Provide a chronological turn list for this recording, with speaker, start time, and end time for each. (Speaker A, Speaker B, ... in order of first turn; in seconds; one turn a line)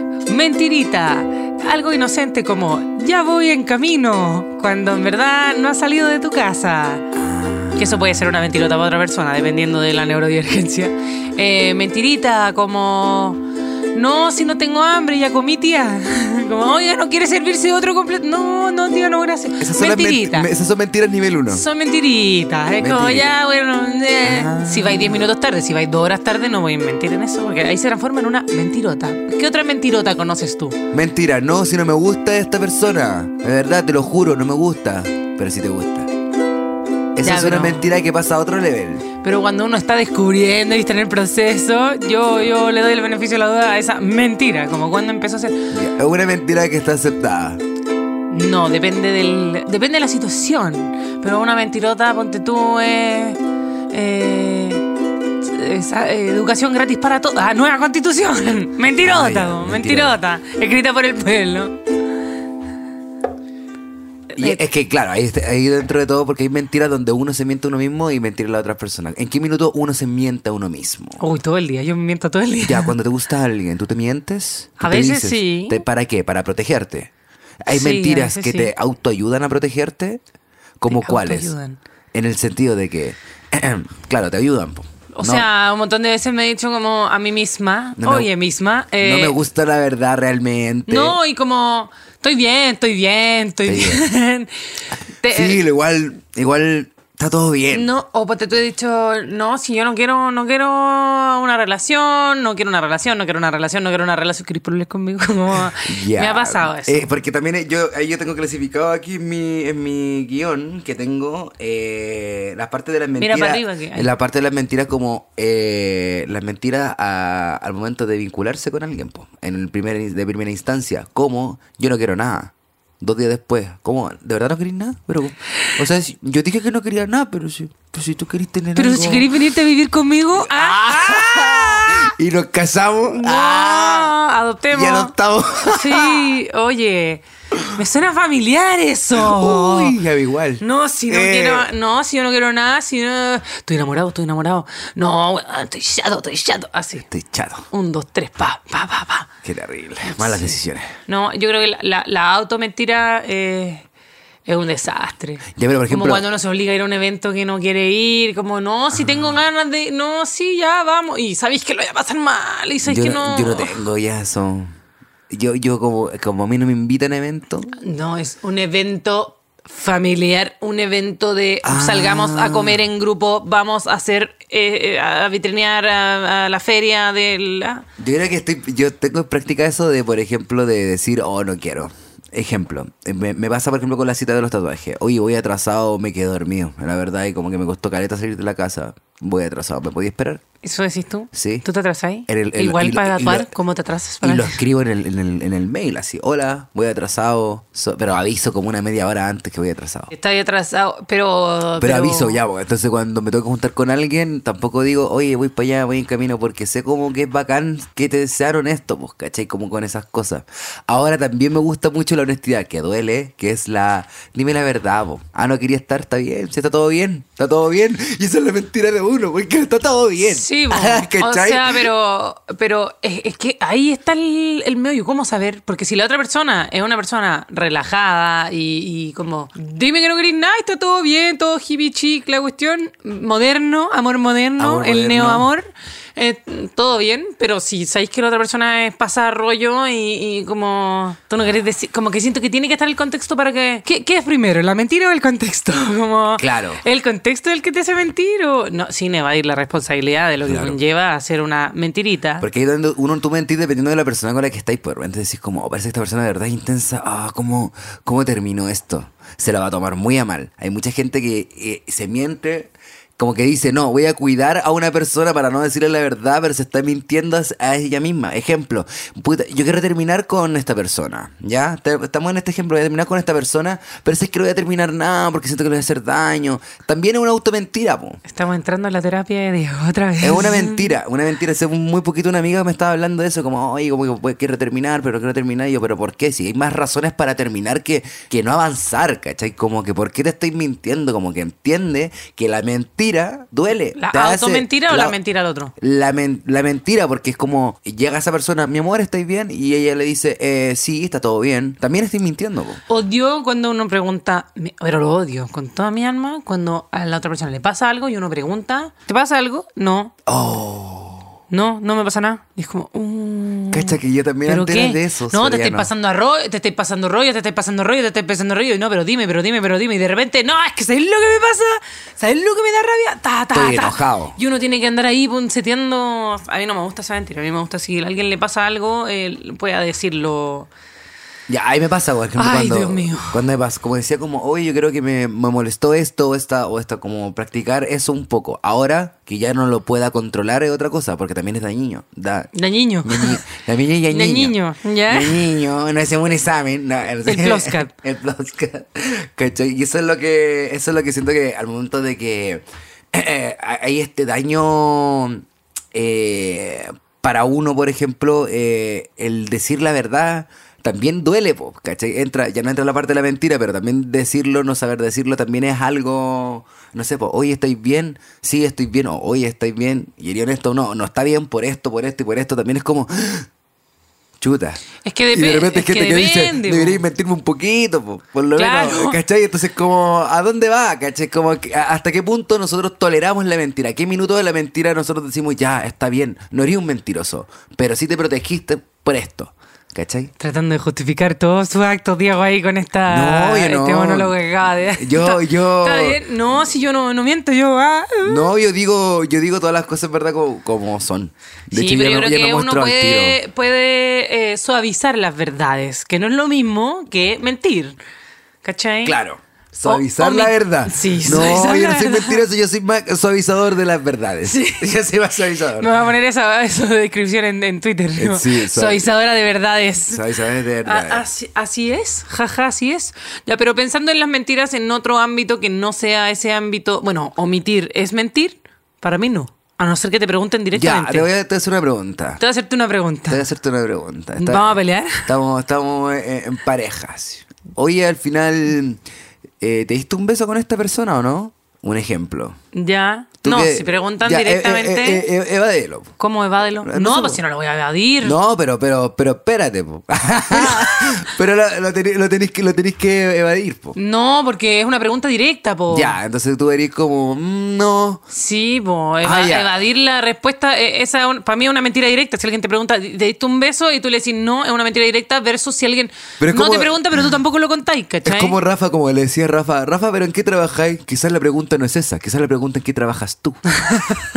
Speaker A: 0.2-7.1
Speaker B: 7.2-8.0
Speaker A: 7.7-20.5
Speaker B: 19.6-21.6
Speaker A: 21.5-30.8
Speaker B: 22.8-23.3
Speaker B: 24.2-25.2
Speaker B: 30.9-36.1
Speaker B: 37.1-39.1
Speaker A: 37.2-37.9
Speaker A: 39.2-45.7
Speaker B: 45.7-47.6
Speaker A: 48.3-53.4
Speaker A: 53.9-54.9
Speaker A: 55.4-61.8
Speaker B: 59.0-60.2
Speaker A: 64.3-64.6
Speaker B: 64.3-71.2
Speaker A: 71.2-72.9
Speaker B: 72.6-77.1
Speaker A: 74.8-75.8
Speaker B: 77.6-80.2
Speaker A: 77.7-78.7
Speaker B: 80.8-81.5
Speaker A: 80.9-81.8
Speaker B: 82.1-85.5
Speaker A: 85.1-89.4
Speaker B: 88.0-88.3
Speaker B: 89.0-91.2
Speaker A: 90.9-94.5
Speaker B: 93.6-94.0
Speaker A: 95.2-95.6
Speaker B: 95.2-97.9
Speaker A: 97.7-107.1
Speaker B: 105.7-129.3
Speaker A: 113.2-114.1
Speaker A: 128.7-132.1
Speaker B: 130.3-134.2
Speaker A: 133.1-140.0
Speaker B: 134.7-136.3
Speaker B: 139.1-141.7
Speaker A: 140.6-147.1
Speaker B: 147.1-147.7
Speaker A: 147.7-149.3
Speaker B: 149.4-150.9
Speaker A: 150.0-153.8
Speaker A: 154.4-163.8
Speaker B: 155.5-156.2
Speaker B: 162.8-164.7
Speaker B: 165.3-167.8
Speaker A: 167.8-177.8
Speaker B: 171.6-172.8
Speaker B: 178.0-190.4
Speaker A: 190.6-194.6
Speaker B: 191.3-191.7
Speaker B: 192.3-193.5
Speaker B: 194.2-200.1
Speaker A: 200.1-202.4
Speaker B: 201.8-221.9
Speaker A: 220.2-252.4
Speaker B: 234.6-235.5
Speaker B: 246.4-246.8
Speaker B: 250.4-250.8
Speaker B: 252.4-278.2
Speaker A: 278.3-280.9
Speaker B: 280.2-295.2
Speaker A: 293.9-295.7
Speaker B: 295.8-302.8
Speaker A: 302.9-310.1
Speaker B: 310.2-311.3
Speaker A: 311.5-330.7
Speaker B: 313.7-315.9
Speaker B: 323.5-324.4
Speaker B: 331.5-342.5
Speaker A: 332.4-333.4
Speaker A: 342.5-343.4
Speaker B: 343.0-373.5
Speaker A: 344.1-345.4
Speaker A: 347.2-347.9
Speaker B: 374.4-390.3
Speaker A: 375.0-377.0
Speaker A: 378.6-379.2
Speaker A: 390.4-398.5
Speaker B: 393.1-394.4
Speaker B: 394.9-396.2
Speaker B: 398.2-403.4
Speaker A: 401.7-408.0
Speaker A: 408.6-409.2
Speaker B: 409.0-415.9
Speaker A: 409.7-412.4
Speaker A: 414.4-414.9
Speaker A: 415.8-420.2
Speaker B: 418.2-419.1
Speaker B: 420.1-421.2
Speaker A: 420.8-431.3
Speaker B: 430.7-432.4
Speaker A: 432.4-433.4
Speaker B: 433.3-439.0
Speaker A: 434.4-435.3
Speaker B: 439.6-442.6
Speaker A: 442.7-445.3
Speaker B: 443.4-446.1
Speaker A: 446.2-448.4
Speaker B: 446.8-447.4
Speaker B: 448.2-454.0
Speaker A: 450.5-451.2
Speaker A: 453.9-456.1
Speaker B: 455.9-458.2
Speaker A: 458.3-468.6
Speaker B: 459.2-459.7
Speaker B: 466.4-467.3
Speaker B: 468.2-473.7
Speaker A: 473.8-474.3